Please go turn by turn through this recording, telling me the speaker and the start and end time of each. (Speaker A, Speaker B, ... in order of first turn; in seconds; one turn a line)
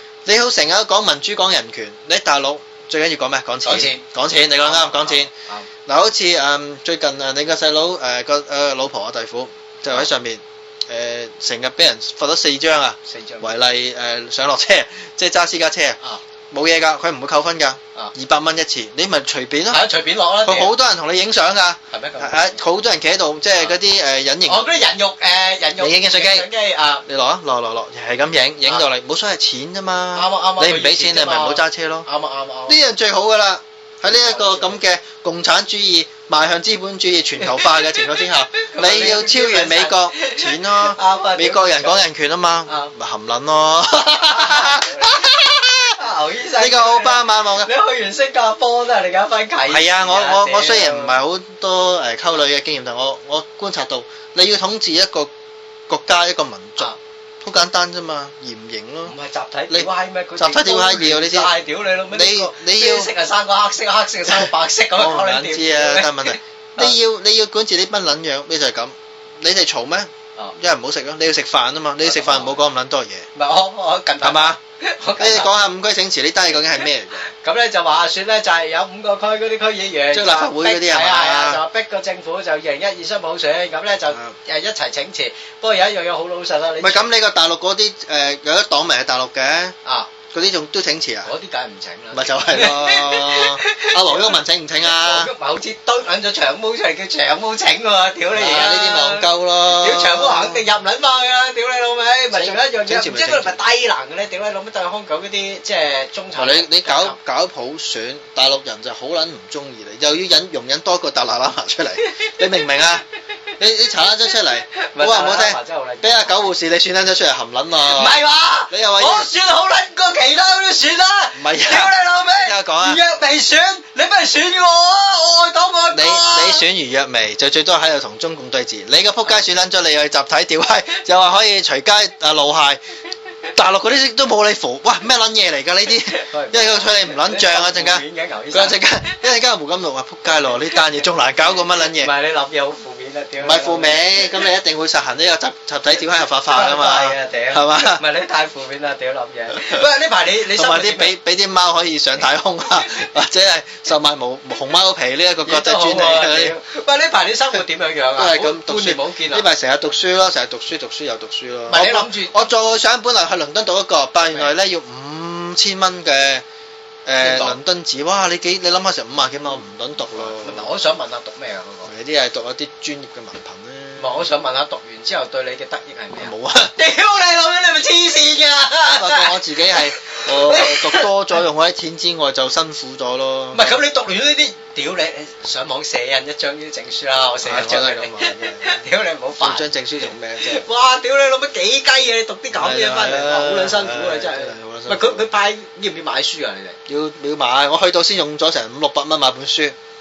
Speaker A: 0.2-5.3
Speaker B: 3.6-4.0
Speaker B: 4.6-5.7
Speaker A: 5.8-16.0
Speaker B: 13.1-13.5
Speaker A: 16.5-19.8
Speaker B: 19.7-20.7
Speaker A: 20.4-24.8
Speaker B: 21.9-22.6
Speaker B: 24.5-27.0
Speaker A: 25.8-26.5
Speaker A: 27.1-32.1
Speaker B: 30.1-32.8
Speaker A: 32.7-46.0
Speaker B: 34.0-34.8
Speaker B: 37.4-37.9
Speaker B: 38.6-42.0
Speaker B: 42.7-42.9
Speaker B: 44.2-45.3
Speaker B: 46.0-51.2
Speaker A: 46.5-47.7
Speaker A: 49.7-55.3
Speaker A: 55.9-59.1
Speaker B: 59.0-66.9
Speaker A: 59.7-61.6
Speaker A: 62.1-63.1
Speaker A: 64.3-73.3
Speaker B: 72.0-72.6
Speaker B: 73.3-75.5
Speaker A: 74.2-74.6
Speaker A: 75.2-77.3
Speaker B: 77.4-87.0
Speaker A: 80.1-81.6
Speaker A: 86.8-89.7
Speaker B: 89.8-90.1
Speaker A: 90.3-91.3
Speaker B: 91.2-107.2
Speaker A: 92.1-95.3
Speaker A: 98.3-100.7
Speaker A: 102.3-103.6
Speaker A: 106.3-113.0
Speaker A: 113.6-118.2
Speaker B: 114.8-116.4
Speaker B: 117.8-126.6
Speaker A: 118.7-119.3
Speaker A: 121.3-123.0
Speaker A: 125.9-132.8
Speaker A: 133.5-142.1
Speaker B: 136.1-138.8
Speaker B: 141.8-144.3
Speaker A: 143.4-148.0
Speaker B: 146.5-151.1
Speaker A: 149.5-149.8
Speaker A: 150.5-156.6
Speaker B: 155.4-159.5
Speaker A: 158.2-166.4
Speaker B: 161.7-162.4
Speaker B: 164.2-164.5
Speaker A: 167.1-170.7
Speaker B: 167.2-167.6
Speaker B: 170.1-171.9
Speaker A: 171.8-174.2
Speaker B: 174.0-181.1
Speaker A: 176.2-176.7
Speaker A: 178.9-183.8
Speaker B: 183.5-189.7
Speaker A: 187.4-188.8
Speaker A: 189.4-190.7
Speaker B: 190.4-196.8
Speaker A: 192.5-195.2
Speaker A: 196.9-199.8